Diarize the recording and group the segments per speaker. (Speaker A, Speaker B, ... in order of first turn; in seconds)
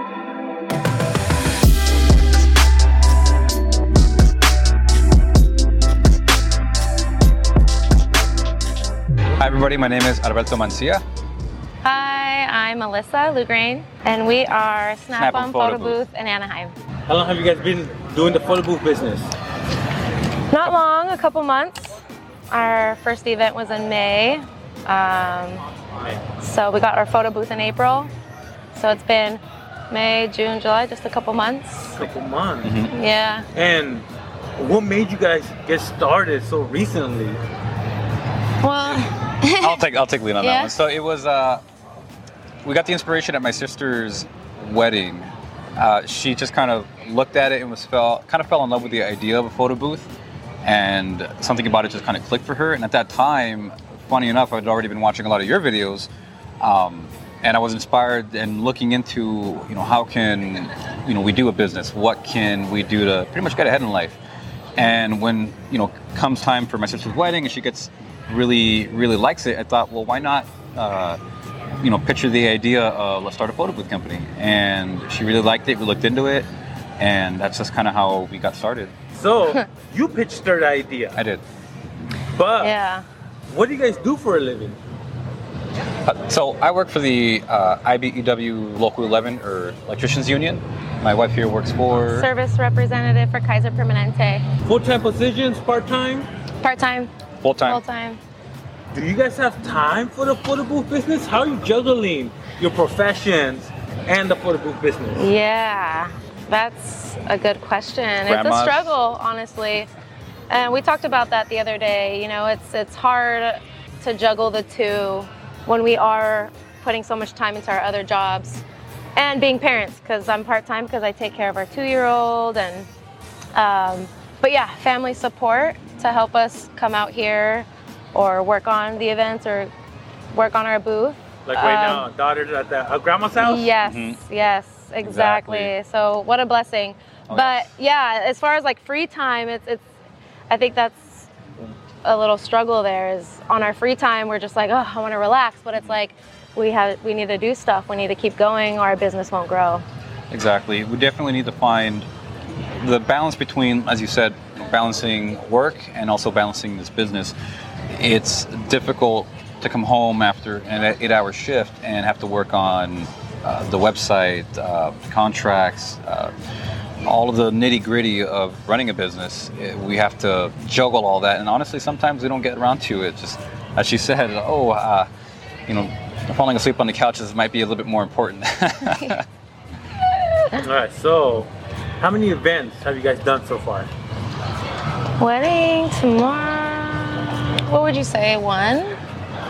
Speaker A: 9.4-11.0, 15.2-16.0, 32.6-32.9, 39.6-41.6, 42.6-50.1, 50.6-56.1, 56.6-64.2, 64.8-71.2, 71.8-76.5, 77.0-78.9, 81.1-81.4, 86.0-92.3, 97.4-97.8, 108.3-108.9, 133.8-134.2, 135.0-135.7, 137.3-137.6, 150.3-152.1, 152.8-157.3, 157.9-166.3, 167.1-175.1, 175.7-179.2
Speaker B: 11.8-16.7, 20.5-21.9, 22.5-25.6, 26.4-28.1, 28.7-32.0, 32.9-33.5, 38.6-39.8, 40.4-40.7, 82.6-83.0, 92.0-94.5, 96.6-97.1, 97.6-98.2, 105.1-109.9, 110.5-118.6, 119.2-122.9, 123.5-129.7, 130.3-132.1, 133.4-139.8, 140.5-141.3, 142.0-149.8, 180.2-180.6, 185.2-189.0
Speaker C: 17.1-19.3, 31.9-32.7, 33.5-37.4, 79.1-81.2, 82.3-82.7, 83.5-84.8, 94.6-96.3, 98.9-105.3, 131.4-133.7, 180.6-181.5, 182.0-183.9